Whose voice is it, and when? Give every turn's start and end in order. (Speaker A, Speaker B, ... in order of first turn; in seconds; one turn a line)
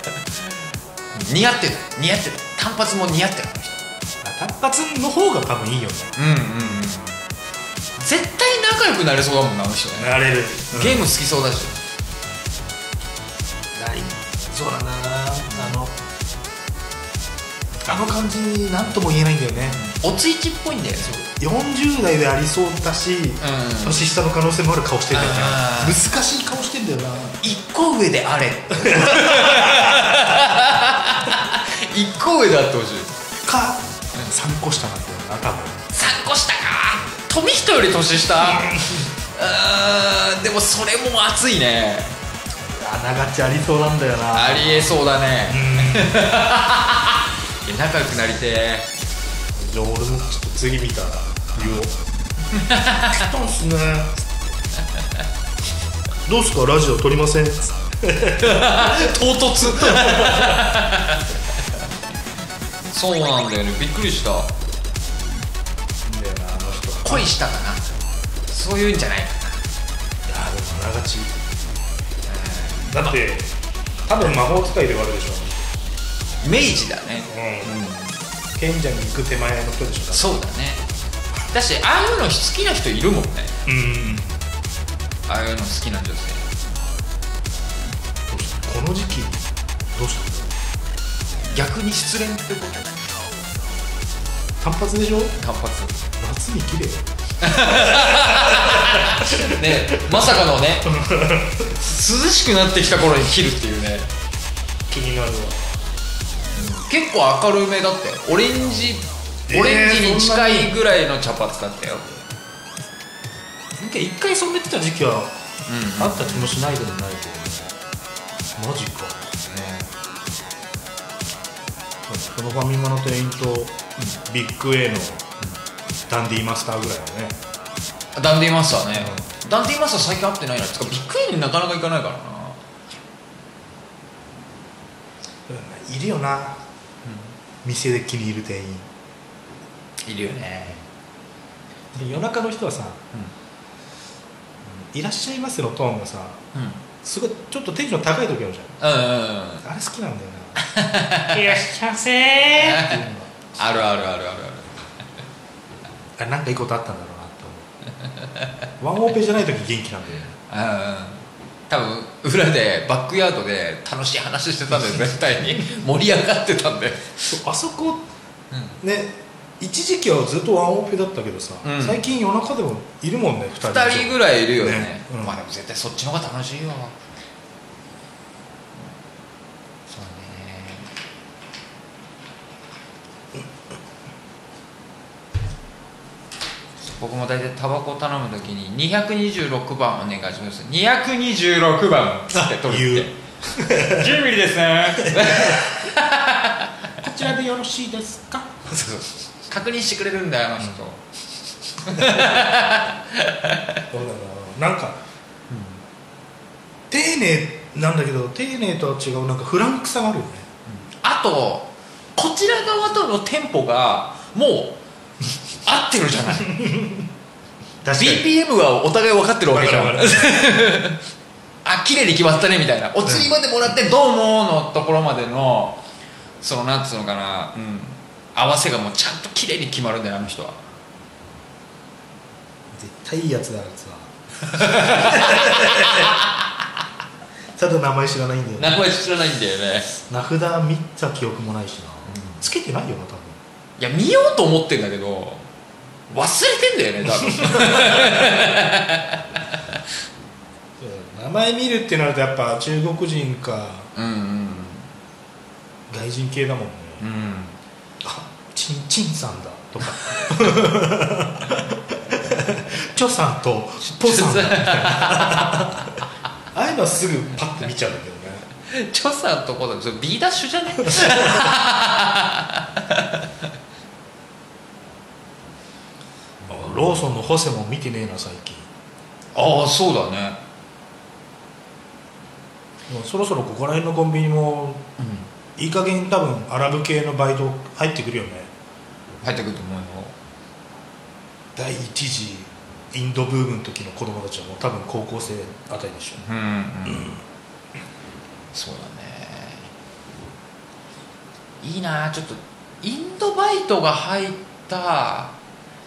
Speaker A: 1.1-3.8
Speaker B: 4.2-6.2
Speaker A: 6.2-7.2
Speaker A: 8.0-10.1
Speaker B: 10.0-11.1
Speaker A: 10.7-11.8
Speaker B: 13.8-16.0
Speaker B: 17.9-19.8
Speaker A: 19.7-21.1
Speaker B: 21.0-27.4
Speaker A: 23.4-24.0
Speaker A: 25.1-26.0
Speaker A: 27.4-33.2
Speaker B: 28.8-30.2
Speaker B: 33.4-35.9
Speaker A: 35.9-42.2
Speaker B: 38.4-39.1
Speaker B: 42.6-45.0
Speaker A: 44.3-48.9
Speaker B: 45.5-46.3
Speaker B: 49.5-51.9
Speaker A: 51.6-51.8
Speaker A: 52.5-53.2
Speaker B: 53.1-54.3
Speaker B: 56.3-60.7
Speaker A: 58.4-61.2
Speaker A: 62.9-64.5
Speaker B: 66.0-67.3
Speaker A: 67.0-67.9
Speaker A: 68.5-69.6
Speaker B: 70.3-71.3
Speaker A: 72.3-73.2
Speaker B: 72.9-73.5
Speaker B: 74.0-75.7
Speaker A: 76.4-78.2
Speaker B: 77.3-77.8
Speaker B: 78.5-80.3
Speaker A: 80.1-80.8
Speaker A: 81.5-83.6
Speaker B: 83.7-84.4
Speaker A: 85.3-86.5
Speaker B: 88.3-90.5
Speaker A: 91.5-93.2
Speaker B: 94.6-95.4
Speaker A: 95.4-96.0
Speaker B: 96.2-100.2
Speaker A: 97.4-101.0
Speaker B: 100.9-101.7
Speaker A: 101.7-104.1
Speaker B: 104.9-105.8
Speaker A: 106.5-112.1
Speaker B: 109.5-110.8
Speaker B: 113.8-115.3
Speaker A: 115.7-116.5
Speaker B: 116.0-117.7
Speaker B: 118.5-119.4
Speaker A: 119.5-119.9
Speaker B: 122.1-125.3
Speaker B: 126.1-127.4
Speaker A: 128.2-132.6
Speaker B: 129.0-129.3
Speaker B: 135.5-136.6
Speaker A: 137.1-137.3
Speaker B: 137.6-138.9
Speaker A: 140.1-140.8
Speaker B: 141.9-143.0
Speaker B: 144.6-146.4
Speaker A: 146.5-146.8
Speaker B: 147.0-148.8
Speaker A: 148.8-149.7
Speaker B: 149.6-150.6
Speaker A: 150.6-151.7
Speaker B: 151.3-153.3
Speaker A: 152.5-154.7
Speaker B: 156.2-157.7
Speaker B: 158.8-160.3
Speaker A: 160.4-167.4
Speaker B: 167.3-168.1
Speaker B: 168.8-175.4
Speaker A: 171.6-172.0
Speaker A: 173.6-176.9
Speaker A: 179.9-180.9
Speaker A: 186.8-193.1
Speaker B: 192.3-194.2
Speaker A: 193.8-196.7
Speaker B: 195.0-195.8
Speaker B: 197.0-198.6
Speaker A: 198.7-201.0
Speaker A: 201.8-203.8
Speaker B: 201.9-202.4
Speaker B: 203.9-205.0
Speaker A: 205.5-205.8
Speaker B: 206.9-210.5
Speaker A: 210.7-214.8
Speaker A: 215.7-216.6
Speaker B: 216.5-217.1
Speaker B: 217.8-218.3
Speaker A: 217.9-221.0
Speaker B: 219.5-220.5
Speaker A: 221.6-225.8
Speaker B: 223.1-223.3
Speaker A: 226.4-230.6
Speaker B: 232.7-236.2
Speaker A: 234.5-236.4
Speaker B: 237.6-238.9
Speaker A: 238.6-239.9
Speaker B: 240.0-243.4
Speaker A: 242.1-242.4
Speaker A: 243.8-245.5
Speaker A: 246.1-249.6
Speaker B: 247.3-248.3
Speaker B: 250.8-253.9
Speaker A: 253.9-254.9
Speaker B: 255.9-257.0
Speaker A: 257.0-257.6
Speaker B: 258.0-265.9
Speaker A: 263.8-265.9
Speaker B: 266.5-268.5
Speaker A: 268.7-273.3
Speaker B: 270.9-271.5
Speaker B: 276.5-278.7
Speaker A: 279.4-280.4
Speaker B: 282.9-284.8
Speaker A: 285.0-285.3
Speaker B: 285.6-288.5
Speaker A: 289.2-290.1
Speaker B: 291.6-296.2
Speaker A: 296.2-297.1
Speaker B: 296.9-297.2
Speaker A: 298.5-299.7
Speaker A: 301.6-305.3